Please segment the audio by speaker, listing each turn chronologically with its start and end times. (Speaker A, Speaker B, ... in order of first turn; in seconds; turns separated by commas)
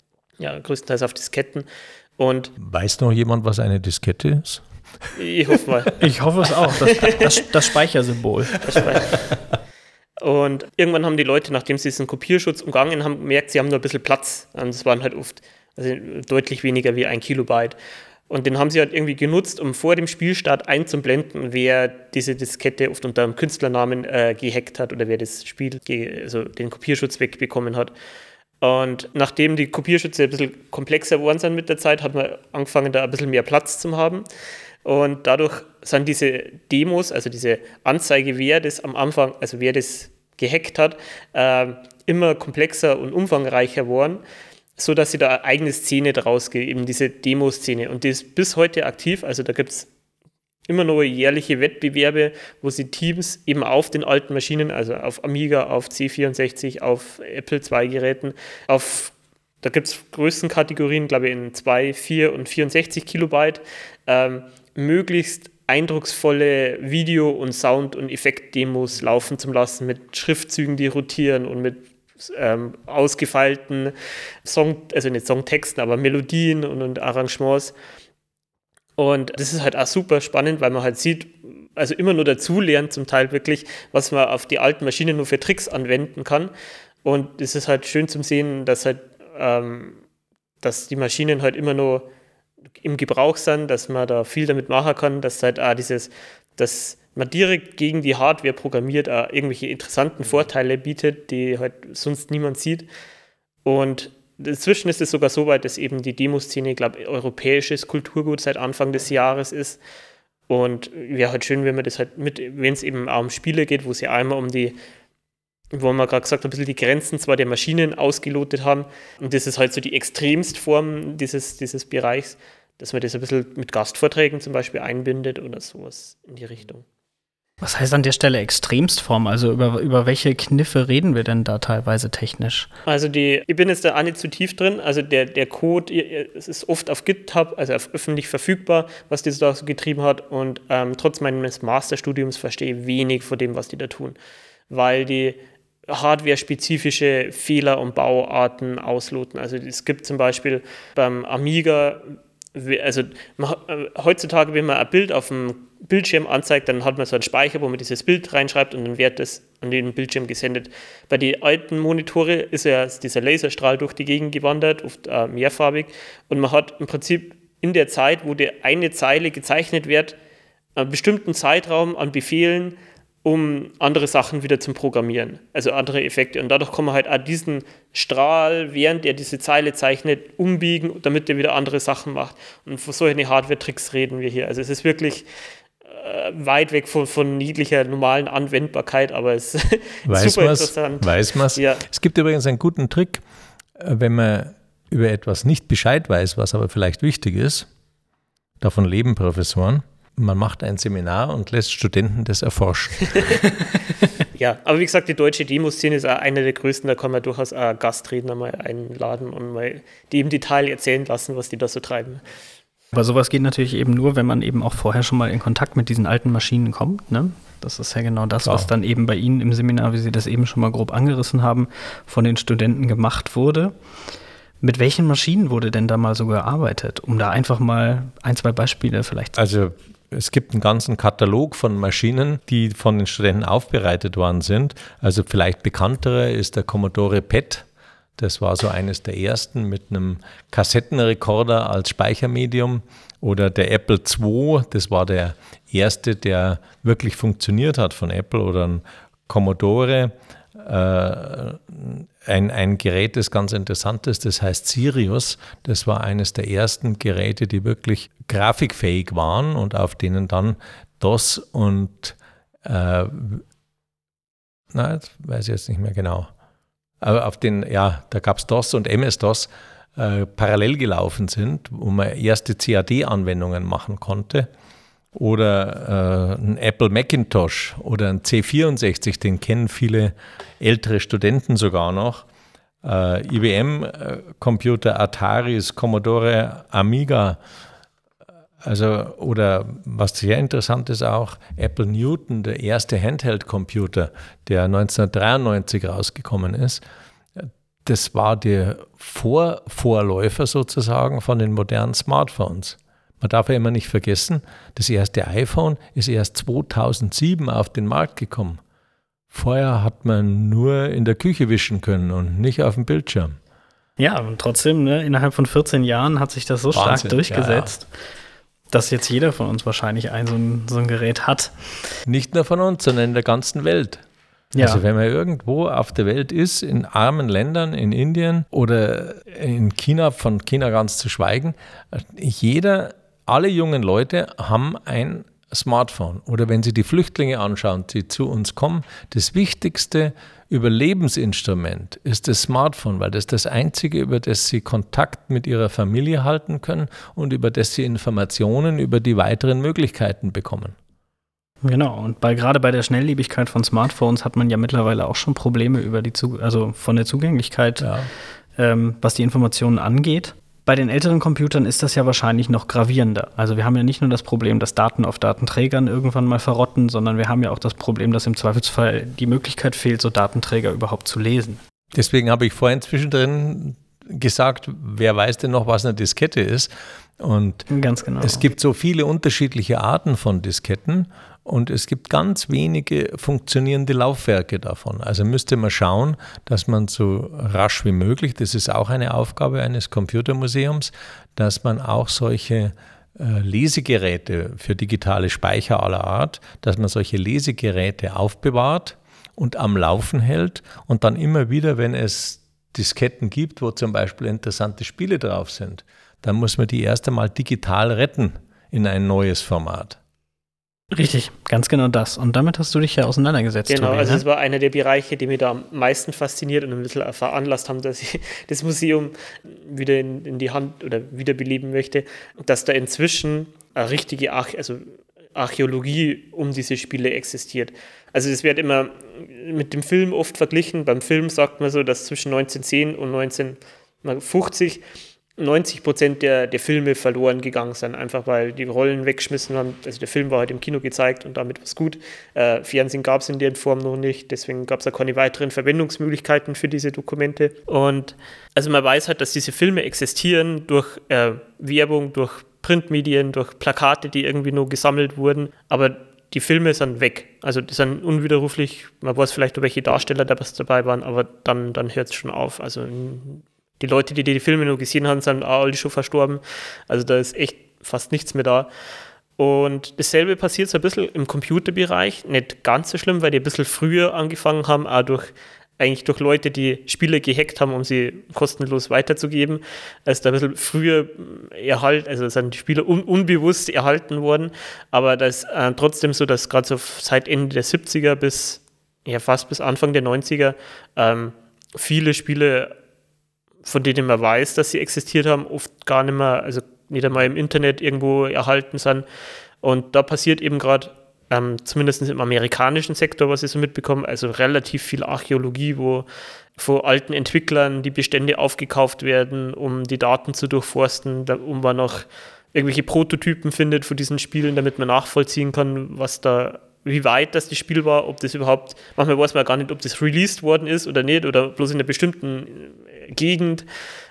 Speaker A: 0.4-1.7, Speaker A: 2.2-2.5, Speaker B: 2.6-4.6, Speaker A: 5.2-6.0, Speaker C: 6.0-8.6, Speaker A: 6.8-7.4, Speaker A: 8.6-9.2, Speaker A: 10.2-17.8, Speaker A: 18.3-27.9, Speaker A: 28.6-34.2, Speaker A: 34.9-44.2, Speaker A: 44.8-49.9, Speaker A: 50.7-77.7, Speaker A: 79.0-86.5, Speaker A: 87.0-90.0, Speaker A: 90.6-92.1, Speaker A: 92.8-102.9, Speaker A: 103.6-109.8, Speaker A: 110.5-114.8, Speaker A: 115.7-126.8, Speaker C: 127.6-132.7, Speaker A: 132.9-144.2, Speaker A: 144.7-170.2, Speaker A: 170.8-185.3, Speaker A: 185.8-191.8, Speaker B: 190.1-193.2, Speaker B: 193.8-197.7, Speaker B: 198.6-203.4, Speaker A: 204.3-212.2, Speaker C: 212.9-223.7, Speaker C: 224.6-229.4, Speaker B: 229.4-237.7, Speaker B: 238.2-263.4, Speaker B: 264.7-266.3, Speaker B: 267.0-274.5, Speaker B: 275.1-282.2, Speaker B: 282.8-287.4, Speaker B: 288.6-296.8, Speaker B: 297.4-308.6, Speaker B: 309.3-313.4, Speaker C: 314.0-317.9, Speaker B: 316.7-317.7, Speaker C: 318.7-321.5, Speaker B: 322.1-324.0, Speaker C: 324.6-324.8, Speaker B: 324.6-350.8, Speaker C: 351.6-357.9, Speaker B: 357.8-358.1, Speaker C: 358.6-371.6, Speaker B: 371.9-377.7, Speaker C: 377.7-378.4, Speaker B: 378.2-410.0, Speaker C: 410.9-414.2, Speaker A: 413.7-434.8, Speaker A: 435.4-468.7, Speaker A: 469.4-492.8, Speaker A: 493.6-499.1, Speaker A: 499.6-506.1, Speaker A: 506.6-523.6